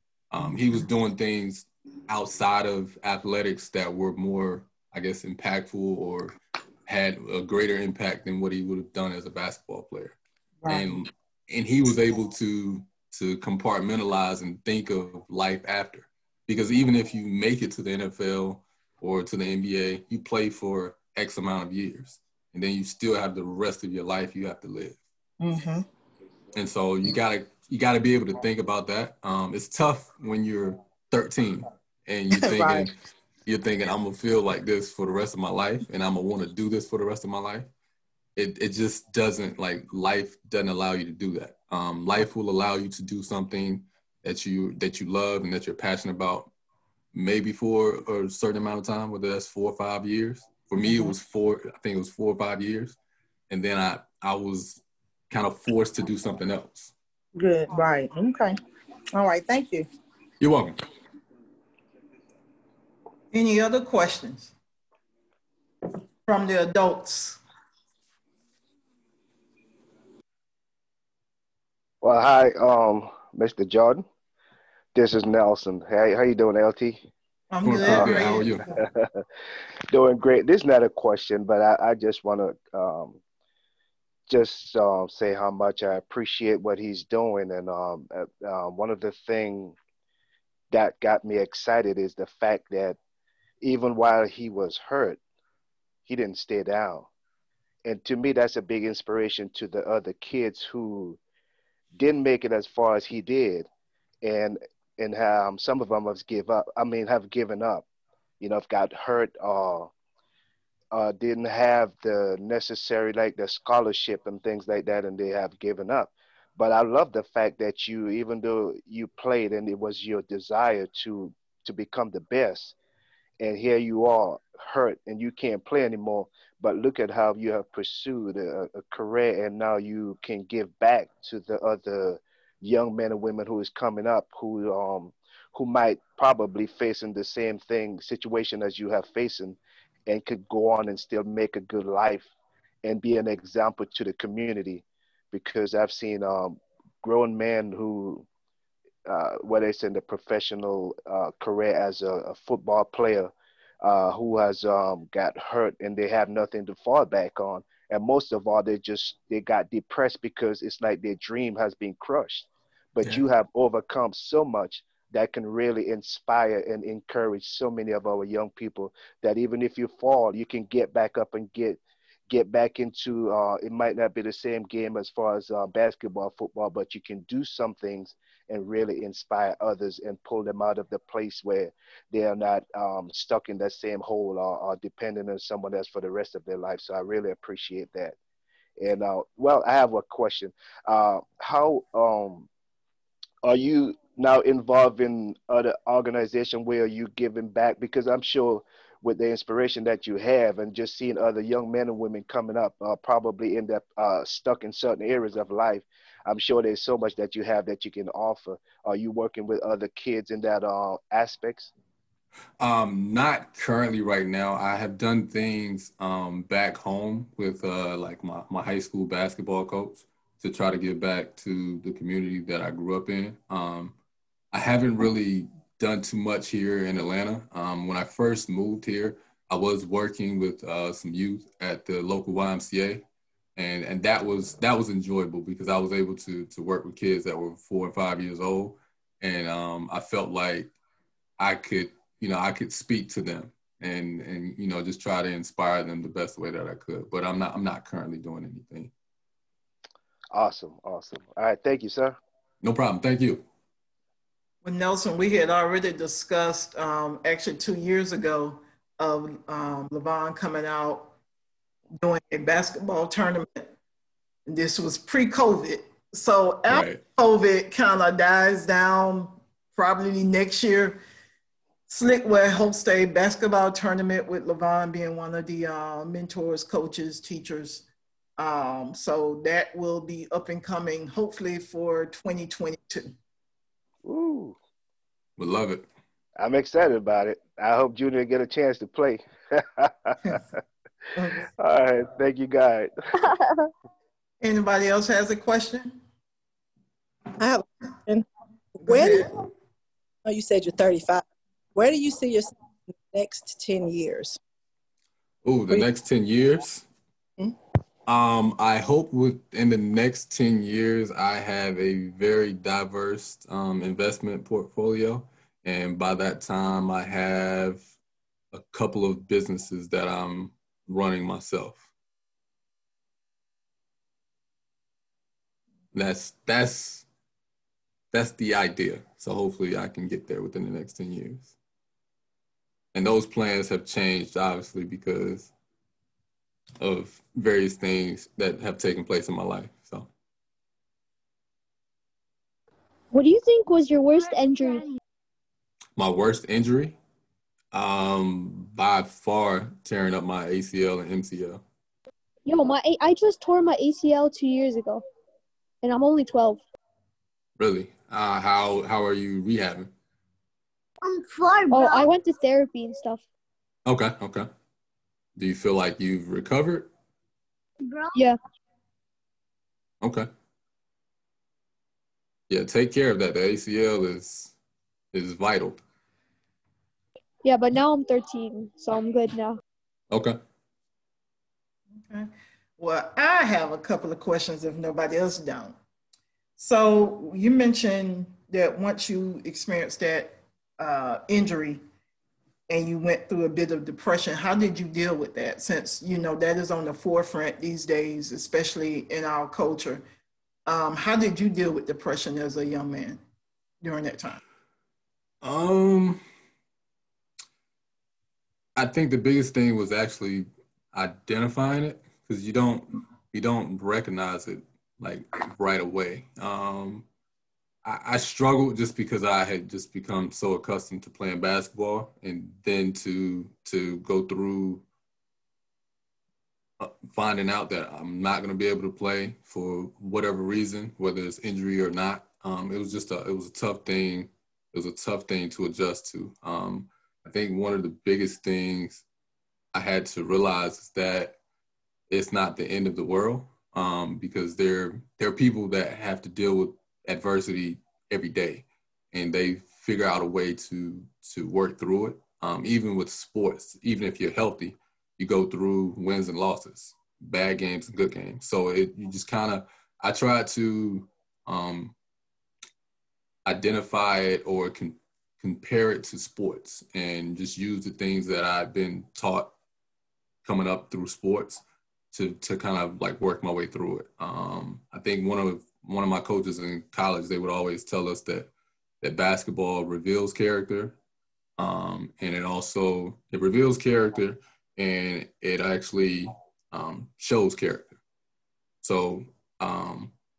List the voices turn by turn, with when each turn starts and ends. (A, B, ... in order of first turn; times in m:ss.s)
0:00.3-0:06.3 A
0:06.9-0:10.2 A
0:10.7-0:25.0 A
0:25.4-0:25.8 B
0:26.5-0:37.7 A
0:32.4-0:32.9 B
0:38.4-0:46.5 A
0:47.1-0:53.0 A
0:50.8-0:51.1 B
0:53.5-0:56.9 A
0:57.4-0:58.6 B
0:59.1-0:59.9 B
1:00.4-1:00.8 A
1:03.3-1:04.5 C
1:06.3-1:07.4 C
1:12.0-1:14.0 D
1:15.0-1:17.0 D
1:17.5-1:18.6 C
1:17.6-1:18.6 A
1:17.8-1:18.2 D
1:18.8-1:19.2 D
1:19.9-1:23.2 D
1:24.3-1:29.8 D
1:30.7-1:33.0 D
1:33.6-1:35.2 D
1:36.1-1:37.1 D
1:37.9-1:41.2 D
1:42.0-1:43.7 D
1:44.2-1:47.9 D
1:48.4-1:49.9 D
1:50.9-2:02.8 D
2:03.4-2:22.3 D
2:22.8-2:28.3 D
2:29.1-3:08.2 D
3:08.8-3:12.5 D
3:13.4-3:31.7 D
3:32.6-3:44.0 A
3:44.5-3:53.0 A
3:53.6-4:00.7 A
4:01.4-4:08.9 A
4:10.3-4:12.2 D
4:12.6-4:13.5 A
4:14.6-4:21.1 C
4:22.0-4:23.7 C
4:24.5-4:31.0 C
4:26.7-4:27.0 A
4:31.9-4:37.9 C
4:38.4-4:43.1 C
4:44.0-4:44.6 D
4:45.4-4:45.9 A
4:46.4-4:50.4 D
4:51.2-4:51.4 C
4:51.6-4:52.9 D
4:54.4-4:56.0 C
4:57.4-4:58.3 E
4:58.8-4:59.4 E
4:58.8-4:59.4 C
5:00.2-5:01.2 E
5:01.8-5:04.4 E
5:05.4-5:06.9 A
5:08.1-5:17.8 A
5:18.5-5:21.9 A
5:25.9-5:27.1 A
5:28.1-5:31.6 A
5:32.9-5:35.5 A
5:36.8-5:40.1 A
5:43.1-5:44.9 F
5:46.0-5:47.0 A
5:47.7-5:51.6 A
5:52.5-5:55.0 F
5:55.8-5:56.6 F
5:57.6-5:59.9 A
6:01.0-6:02.1 B
6:01.7-6:03.2 F
6:03.8-6:04.5 A
6:05.4-6:06.9 A
6:10.0-6:10.3 A
6:12.5-6:14.6 A
6:15.1-6:15.8 A
6:17.4-6:19.6 F
6:20.1-6:20.4 A
6:22.1-6:25.8 C
6:26.6-6:31.8 C
6:32.7-6:40.0 C
6:40.7-6:43.2 C
6:43.8-6:44.4 C
6:45.4-6:46.2 A
6:48.8-6:57.1 A
6:57.8-7:04.8 A
7:06.8-7:19.0 A
7:19.7-7:21.4 A
7:22.1-7:42.0 A
7:43.4-7:49.6 A
7:50.4-7:58.5 A
7:59.0-8:01.0 A
8:01.6-8:08.0 A
8:08.8-8:10.1 A